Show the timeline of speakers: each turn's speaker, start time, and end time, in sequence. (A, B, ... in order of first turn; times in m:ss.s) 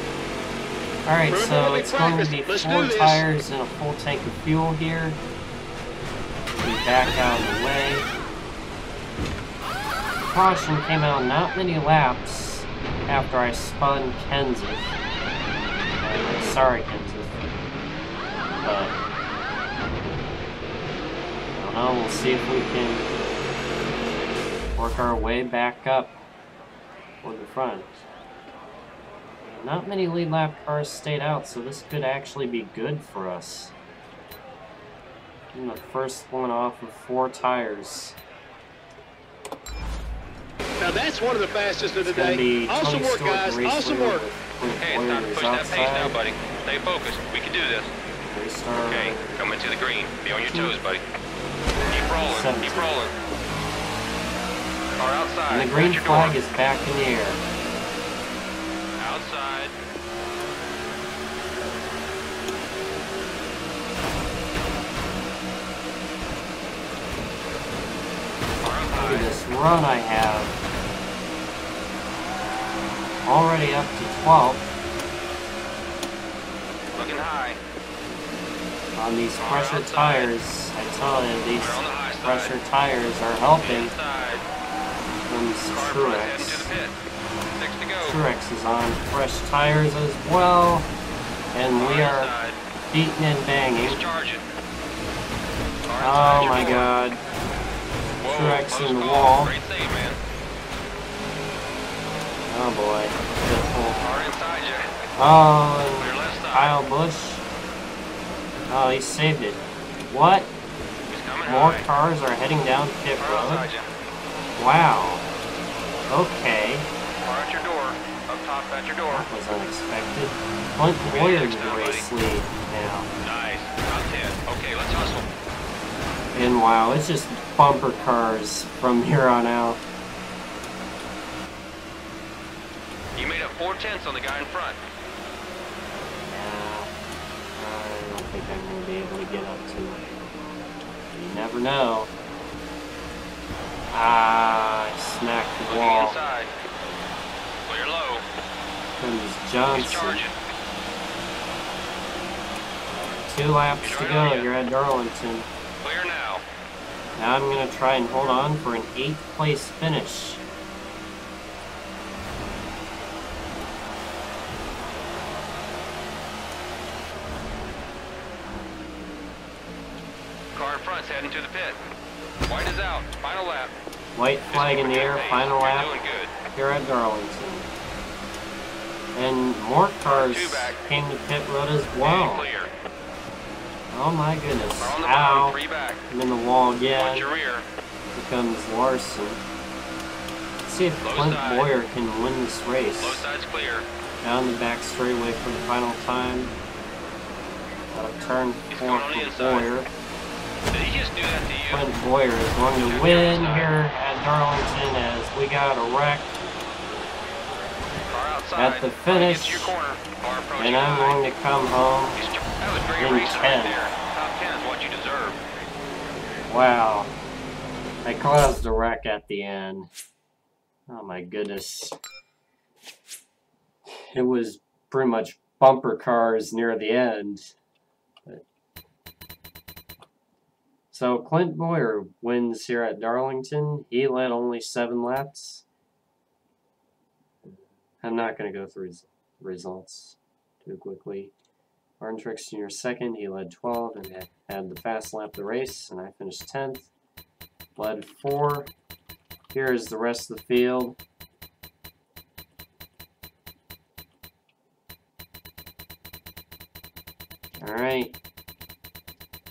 0:01.0-0:05.2 A
0:01.3-0:03.2 B
0:06.5-0:08.1 A
0:10.2-0:14.9 A
0:16.0-0:17.4 A
0:18.6-0:18.9 A
0:21.5-0:23.1 A
0:24.8-0:26.2 A
0:27.2-0:28.0 A
0:29.4-0:33.7 A
0:35.5-0:38.2 A
0:40.8-0:44.2 B
0:42.0-0:46.2 A
0:44.8-0:47.9 C
0:48.2-0:49.3 A
0:48.8-0:51.0 C
0:50.4-0:50.7 A
0:51.9-0:53.1 C
0:52.2-0:53.0 A
0:54.9-0:56.4 C
0:55.5-0:57.4 A
0:59.0-0:59.7 C
1:08.6-1:09.4 C
1:09.0-1:10.5 A
1:13.2-1:14.7 A
1:17.0-1:17.6 C
1:19.0-1:23.9 A
1:19.4-1:20.3 C
1:21.6-1:22.5 C
1:23.6-1:24.4 C
1:25.3-1:26.7 A
1:25.7-1:26.9 C
1:27.6-1:28.2 C
1:28.0-1:30.9 A
1:31.5-1:32.3 A
1:31.7-1:32.6 C
1:32.9-1:34.0 A
1:33.8-1:34.4 C
1:35.9-1:36.9 C
1:36.0-1:37.2 A
1:38.2-1:40.2 C
1:38.2-1:39.5 A
1:42.5-1:44.0 A
1:44.0-1:44.8 C
1:45.2-1:47.4 A
1:46.0-1:46.8 C
1:48.7-1:50.5 A
1:51.1-1:51.8 C
1:51.4-1:53.7 A
1:53.2-1:53.9 C
1:54.6-1:55.2 A
1:56.1-1:56.9 A
1:57.2-1:59.3 C
1:59.1-2:03.1 A
2:01.0-2:02.0 C
2:03.2-2:05.2 C
2:06.3-2:09.8 A
2:13.2-2:14.8 C
2:16.3-2:16.9 A
2:17.6-2:20.0 A
2:21.1-2:22.1 A
2:23.9-2:26.2 A
2:25.6-2:26.5 C
2:27.7-2:28.2 C
2:29.0-2:30.2 A
2:29.7-2:30.4 C
2:33.3-2:35.5 A
2:33.8-2:34.5 C
2:35.8-2:36.4 C
2:37.2-2:40.4 A
2:50.5-2:51.8 C
2:52.5-2:53.7 C
2:54.1-2:55.9 A
2:54.5-2:56.3 C
2:56.5-2:57.7 A
2:59.1-3:02.5 A
3:00.0-3:00.8 C
3:02.0-3:02.7 C
3:03.9-3:05.6 A
3:04.8-3:06.0 C
3:06.1-3:07.3 A
3:06.9-3:07.6 C
3:08.1-3:09.4 A
3:10.6-3:13.3 A
3:11.0-3:11.7 C
3:13.0-3:13.8 C
3:14.2-3:16.5 A
3:17.9-3:19.9 A
3:18.7-3:19.7 C
3:20.7-3:21.9 C
3:21.7-3:26.3 A
3:22.8-3:23.7 C
3:28.1-3:31.2 C
3:28.5-3:29.8 A
3:30.6-3:32.2 A
3:32.1-3:35.4 C
3:33.0-3:33.8 A
3:36.5-3:37.1 A
3:38.0-3:39.9 A
3:40.9-3:41.9 A
3:43.9-3:47.5 A
3:50.9-3:55.6 A
3:58.0-4:01.3 A
4:02.0-4:06.9 A
4:07.8-4:08.7 A
4:09.5-4:11.0 A
4:17.6-4:18.1 A